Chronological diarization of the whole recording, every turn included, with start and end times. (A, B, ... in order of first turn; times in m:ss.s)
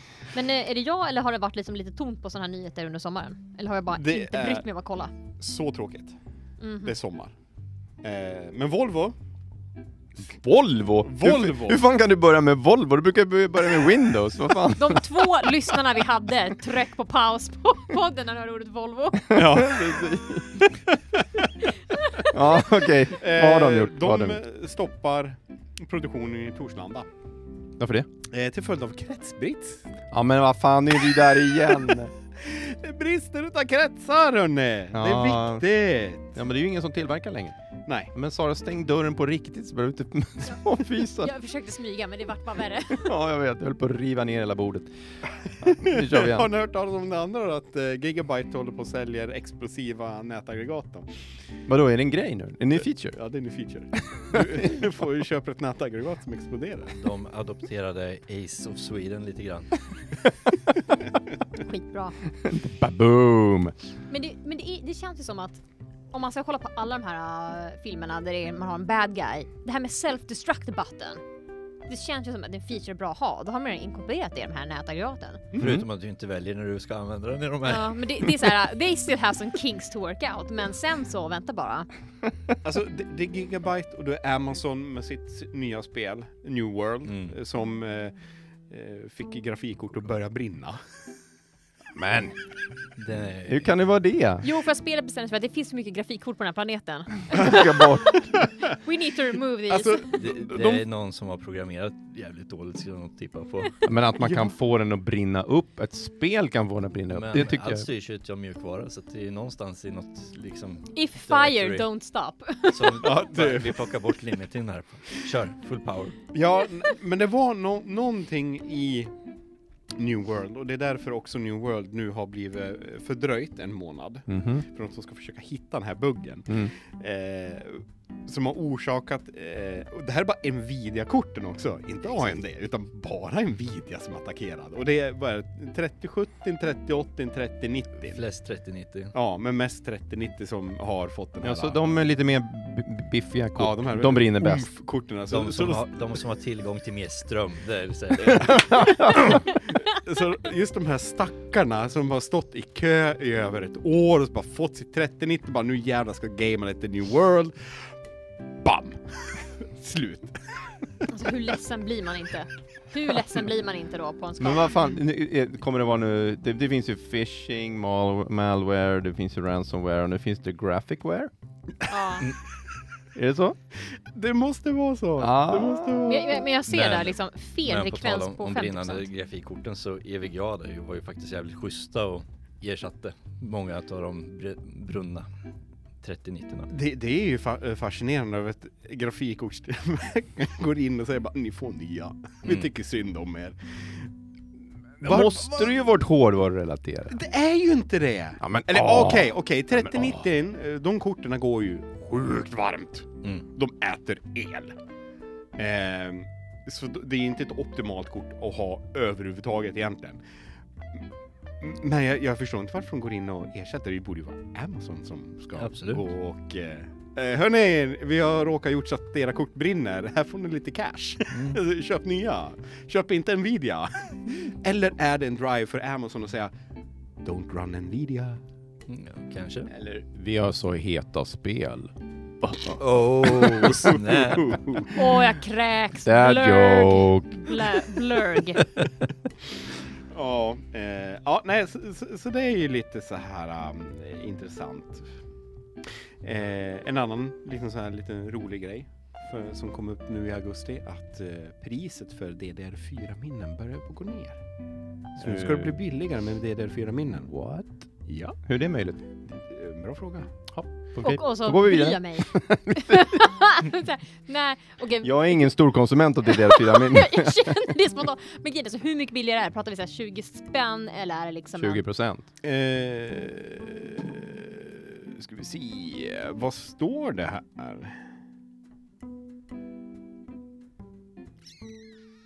0:00.3-0:05.1 A
0:03.9-0:04.6 B
0:05.4-0:06.2 B
0:06.6-0:06.9 A
0:06.8-0:07.3 B
0:08.0-0:09.1 B
0:10.2-0:15.7 C
0:11.0-0:11.8 B
0:14.7-0:19.4 A
0:19.2-0:20.7 C
0:19.3-0:20.4 B
0:21.9-0:22.3 A
0:22.2-0:24.4 C
0:23.1-0:27.1 B
0:27.8-0:28.1 C
0:28.3-0:29.9 B
0:30.1-0:32.1 C
0:32.4-0:36.4 B
0:34.9-0:35.7 C
0:36.3-0:37.6 C
0:37.8-0:38.1 B
0:38.1-0:41.3 C
0:41.2-0:43.2 A
0:42.9-0:44.9 C
0:45.6-0:46.5 C
0:45.7-0:51.1 B
0:51.7-0:53.2 C
0:53.1-0:56.9 B
0:54.3-0:54.7 C
0:56.9-0:59.8 D
1:01.6-1:02.1 A
1:02.4-1:03.7 C
1:04.1-1:05.6 A
1:06.1-1:11.2 A
1:11.9-1:15.4 A
1:15.5-1:15.8 B
1:15.6-1:18.3 D
1:15.6-1:15.9 C
1:17.6-1:21.9 A
1:22.6-1:28.1 B
1:27.0-1:27.4 D
1:28.7-1:30.8 B
1:31.9-1:32.4 C
1:33.0-1:33.6 D
1:33.5-1:34.5 C
1:34.4-1:38.0 A
1:37.3-1:38.3 C
1:38.8-1:40.2 A
1:39.7-1:40.8 B
1:40.1-1:43.8 D
1:43.8-1:47.9 C
1:44.2-1:44.5 B
1:47.1-1:51.8 D
1:50.9-1:53.1 A
1:52.7-1:56.2 D
1:53.0-1:53.9 B
1:56.3-1:59.1 B
1:59.9-2:18.2 B
2:04.3-2:04.6 C
2:18.1-2:19.1 D
2:19.1-2:21.8 B
2:21.4-2:24.7 C
2:23.6-2:25.8 B
2:25.3-2:28.7 D
2:28.3-2:29.4 C
2:29.2-2:37.9 B
2:38.6-2:41.1 B
2:41.1-2:45.0 A
2:44.4-2:51.3 C
2:51.9-2:52.3 A
2:53.1-2:53.6 C
2:53.9-2:56.5 B
2:55.2-2:56.1 C
2:56.0-2:59.0 A
2:56.7-3:05.3 D
3:06.0-3:06.7 D
3:06.7-3:14.1 B
3:12.4-3:12.7 D
3:15.0-3:15.7 B
3:15.0-3:17.2 C
3:17.1-3:24.8 B
3:18.4-3:20.2 C
3:25.6-3:30.2 B
3:31.6-3:46.5 B
3:35.6-3:36.0 D
3:41.3-3:41.6 D
3:47.2-3:48.4 B
3:48.9-3:49.7 D
3:49.7-3:52.8 C
3:52.6-3:54.9 D
3:53.5-3:55.0 B
3:54.9-3:58.6 A
3:56.0-3:57.6 C
4:00.1-4:05.1 B
4:06.2-4:14.4 B
4:15.1-4:17.3 B
4:15.2-4:15.8 C
4:17.3-4:17.8 C
4:18.1-4:18.4 B
4:18.4-4:19.0 C
4:19.3-4:20.3 B
4:20.5-4:23.3 C
4:21.0-4:25.5 A
4:25.0-4:27.6 C
4:26.2-4:31.8 A
4:31.6-4:32.2 C
4:32.4-4:38.0 B